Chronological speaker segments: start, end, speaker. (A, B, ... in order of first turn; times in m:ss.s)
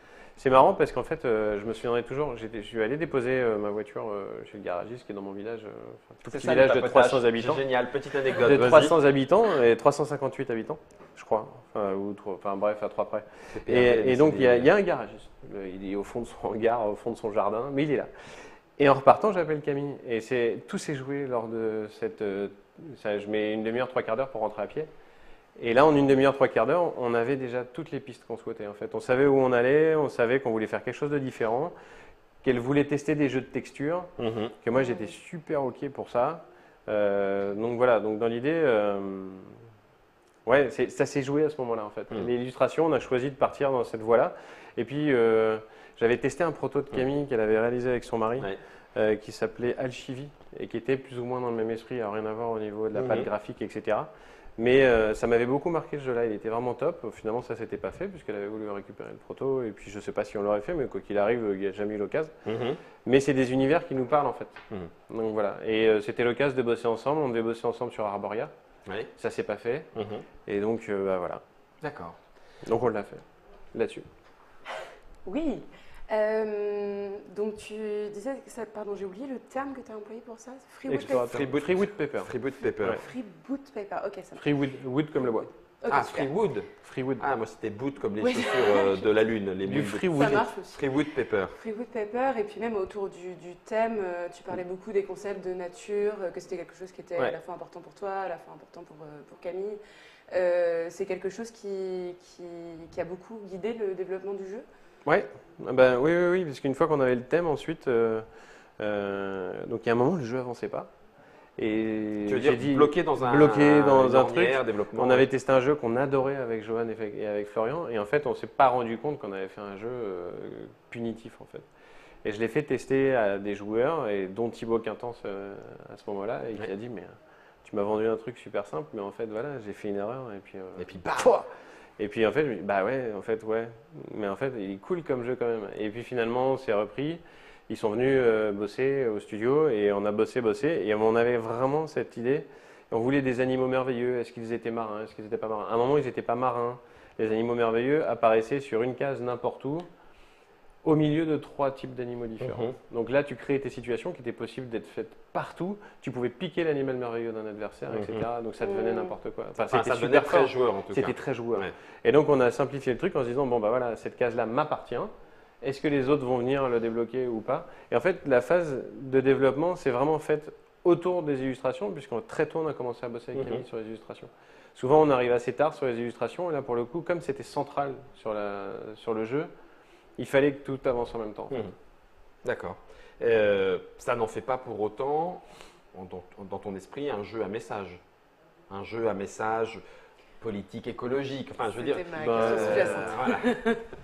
0:00.4-0:07.6 A
0:06.3-0:09.0 B
0:08.4-0:18.1 A
0:13.5-0:14.7 B
0:18.8-0:24.9 A
0:25.6-0:31.7 A
0:32.4-0:39.6 A
0:34.2-0:34.6 B
0:34.8-0:35.1 C
0:40.5-1:02.4 A
0:53.0-0:53.3 B
1:02.4-1:02.8 B
1:03.0-1:08.5 A
1:08.9-1:09.1 B
1:09.2-1:09.9 A
1:10.0-1:10.2 B
1:10.5-1:11.4 A
1:11.8-1:12.2 B
1:12.6-1:14.0 A
1:15.2-1:21.5 C
1:20.9-1:23.0 A
1:21.0-1:23.0 B
1:22.8-1:24.6 C
1:24.4-1:25.5 A
1:25.8-1:26.3 C
1:25.9-1:31.6 B
1:26.8-1:27.2 A
1:28.2-1:29.1 C
1:29.6-1:30.5 A
1:30.1-1:39.8 C
1:40.3-1:44.6 C
1:45.1-1:48.3 A
1:48.8-1:50.9 A
1:51.6-2:01.7 A
1:52.3-1:55.3 B
2:02.2-2:11.5 A
2:10.8-2:11.4 B
2:12.0-2:29.9 A
2:30.8-2:59.5 A
2:32.4-2:32.8 B
2:37.9-2:38.2 B
2:38.6-2:39.1 C
2:39.7-2:41.7 B
2:53.4-2:53.6 B
3:00.2-3:01.7 A
3:02.4-3:08.0 B
3:08.7-3:09.8 B
3:10.4-3:13.5 B
3:11.8-3:13.8 C
3:12.2-3:13.2 A